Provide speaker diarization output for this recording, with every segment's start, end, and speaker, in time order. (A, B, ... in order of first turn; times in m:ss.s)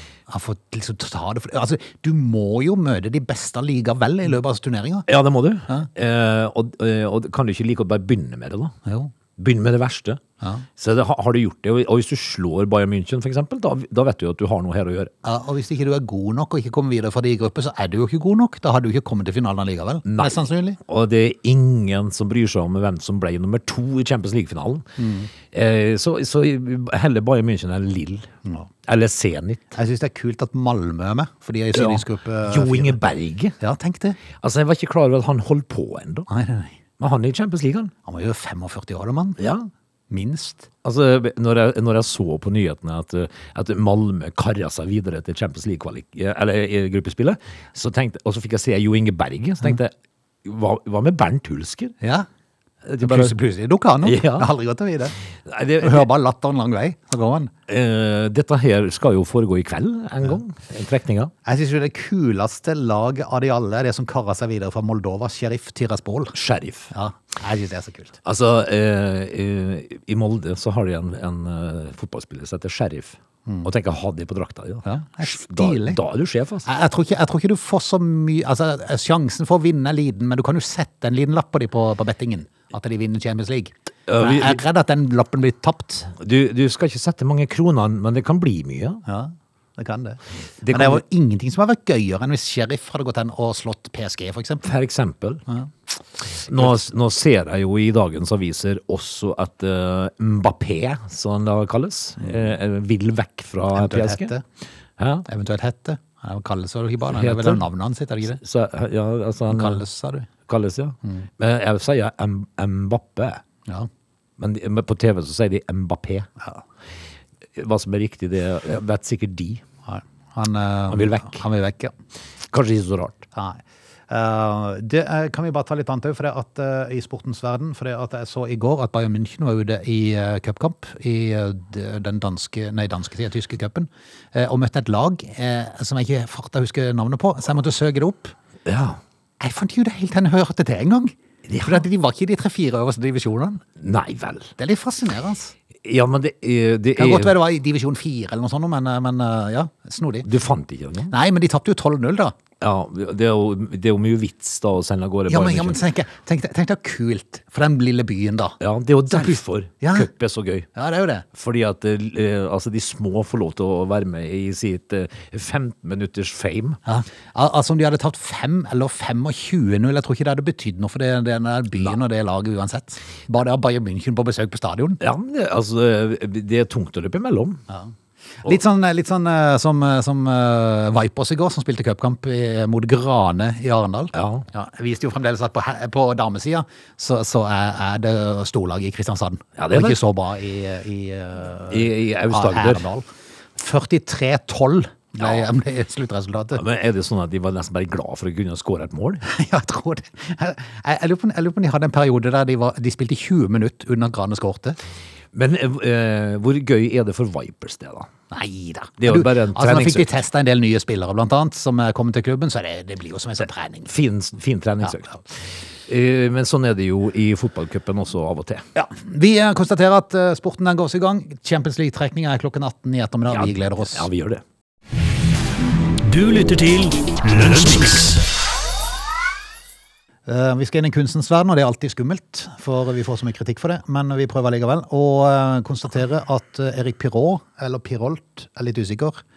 0:00.3-0:05.1 A
0:05.1-0:08.8 B
0:08.9-0:09.1 A
0:09.4-0:10.2 B
0:10.4-0:10.6 A
0:10.8-0:15.1 B
0:15.2-0:20.8 A
0:20.1-0:24.9 B
0:25.0-0:25.3 A
0:25.4-0:28.3 B
0:28.8-0:29.8 B
0:29.8-0:33.0 A
0:31.7-0:33.6 B
0:33.6-0:34.2 A
0:34.4-0:36.3 B
0:36.3-0:36.8 A
0:37.0-0:37.9 B
0:38.1-0:39.4 A
0:39.4-0:39.7 B
0:40.1-0:40.7 A
0:40.8-0:49.9 B
0:50.4-0:52.0 B
0:52.0-0:52.3 A
0:52.9-0:53.4 B
0:53.0-0:55.2 A
0:54.0-0:54.5 B
0:55.5-0:56.1 B
0:55.8-0:57.5 A
0:57.7-1:01.3 B
1:01.4-1:06.4 A
1:06.3-1:06.9 B
1:06.9-1:08.2 A
1:08.2-1:16.7 B
1:14.8-1:16.0 A
1:16.6-1:26.1 A
1:24.1-1:24.6 B
1:26.1-1:29.0 B
1:29.1-1:34.7 A
1:30.6-1:31.0 B
1:34.6-1:35.4 B
1:36.4-1:44.3 B
1:36.4-1:36.8 A
1:43.7-1:44.4 A
1:45.0-1:45.2 B
1:45.3-1:48.4 A
1:47.0-1:47.6 B
1:48.3-1:49.8 B
1:49.5-1:50.3 A
1:50.4-1:53.4 B
1:54.4-1:56.3 B
1:57.5-1:59.6 B
1:59.9-2:01.9 A
2:00.9-2:01.4 B
2:02.5-2:03.2 B
2:03.3-2:18.3 A
2:18.6-2:19.0 B
2:19.4-2:23.6 A
2:21.5-2:21.8 B
2:23.8-2:24.5 B
2:24.6-2:25.5 A
2:25.8-2:27.3 B
2:27.0-2:30.3 A
2:30.2-2:31.1 B
2:31.1-2:32.4 A
2:32.6-2:35.8 B
2:35.3-2:38.6 A
2:38.6-2:40.7 B
2:39.1-2:40.1 A
2:40.7-2:41.2 A
2:41.3-2:46.8 B
2:46.9-2:55.0 A
2:55.0-2:57.6 B
2:57.7-3:16.6 A
3:04.1-3:04.4 B
3:09.6-3:10.0 B
3:11.7-3:12.9 B
3:15.2-3:15.5 B
3:16.5-3:19.2 B
3:19.2-3:24.8 A
3:25.3-3:28.1 B
3:28.3-3:33.9 A
3:29.0-3:30.1 B
3:33.9-3:38.7 B
3:38.8-3:44.1 A
3:43.3-3:44.4 B
3:46.0-3:48.2 C
3:50.2-3:59.2 A